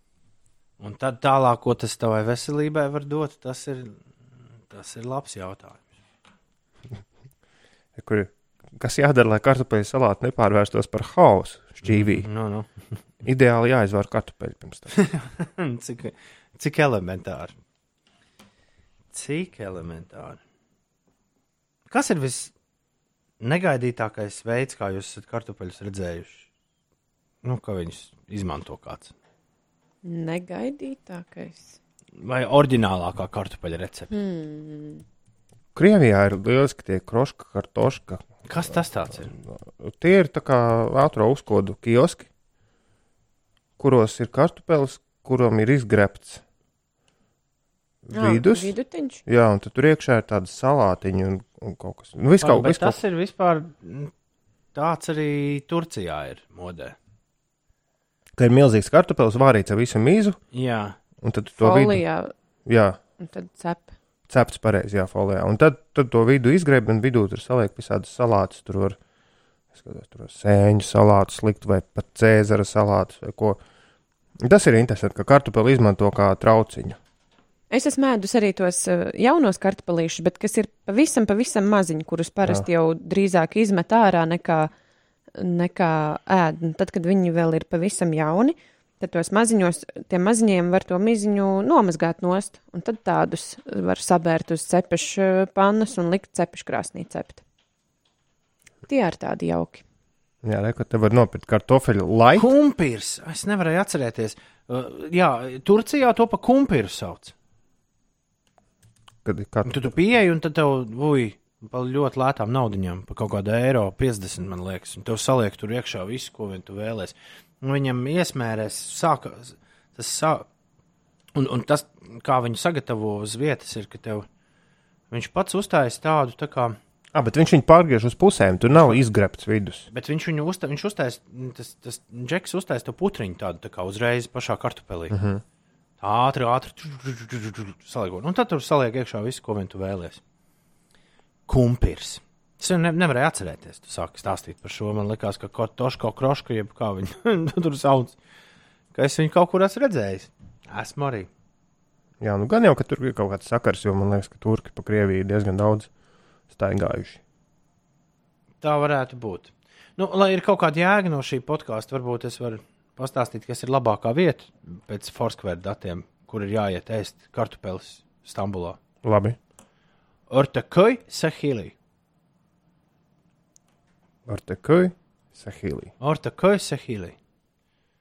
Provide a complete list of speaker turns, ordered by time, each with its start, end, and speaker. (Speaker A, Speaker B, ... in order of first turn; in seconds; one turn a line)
Speaker A: 0.8-4.0
Speaker A: 4.7-5.8
Speaker B: 8.0-12.3
Speaker A: 12.0-12.7
Speaker B: 13.2-15.0
Speaker A: 15.0-17.5
Speaker A: 19.1-20.4
Speaker A: 21.9-22.5
Speaker A: 23.4-26.4
Speaker A: 27.4-29.1
Speaker C: 30.0-31.8
Speaker A: 32.2-34.1
Speaker C: 34.1-35.0
Speaker B: 35.7-38.2
Speaker A: 38.5-39.3
Speaker B: 39.5-42.3
Speaker B: 43.8-46.4
Speaker B: 48.0-48.7
Speaker C: 48.1-49.2
Speaker B: 49.2-53.0
Speaker A: 52.4-54.1
Speaker A: 54.7-57.0
Speaker B: 58.4-60.4
Speaker A: 60.5-61.0
Speaker B: 61.2-62.0
Speaker C: 61.6-62.3
Speaker B: 62.6-63.0
Speaker C: 63.2-63.9
Speaker B: 64.3-69.0
Speaker B: 69.7-73.6
Speaker B: 74.4-77.0
Speaker C: 77.7-84.7
Speaker C: 85.3-97.4
Speaker C: 98.9-99.8
Speaker B: 100.4-102.5
Speaker A: 102.3-107.3
Speaker B: 109.2-109.9
Speaker A: 109.6-120.5
Speaker A: 121.3-124.3
Speaker A: 125.1-126.8
Speaker B: 127.1-129.9
Speaker A: 128.7-129.0
Speaker A: 129.9-135.2
Speaker B: 135.1-135.4
Speaker A: 136.0-140.2
Speaker A: 141.5-148.2
Speaker A: 148.9-151.3
Speaker B: 152.2-155.9
Speaker B: 156.5-157.2
Speaker A: 158.6-168.8
Speaker B: 169.0-169.4
Speaker A: 170.3-171.7
Speaker B: 174.3-175.9
Speaker A: 176.0-177.2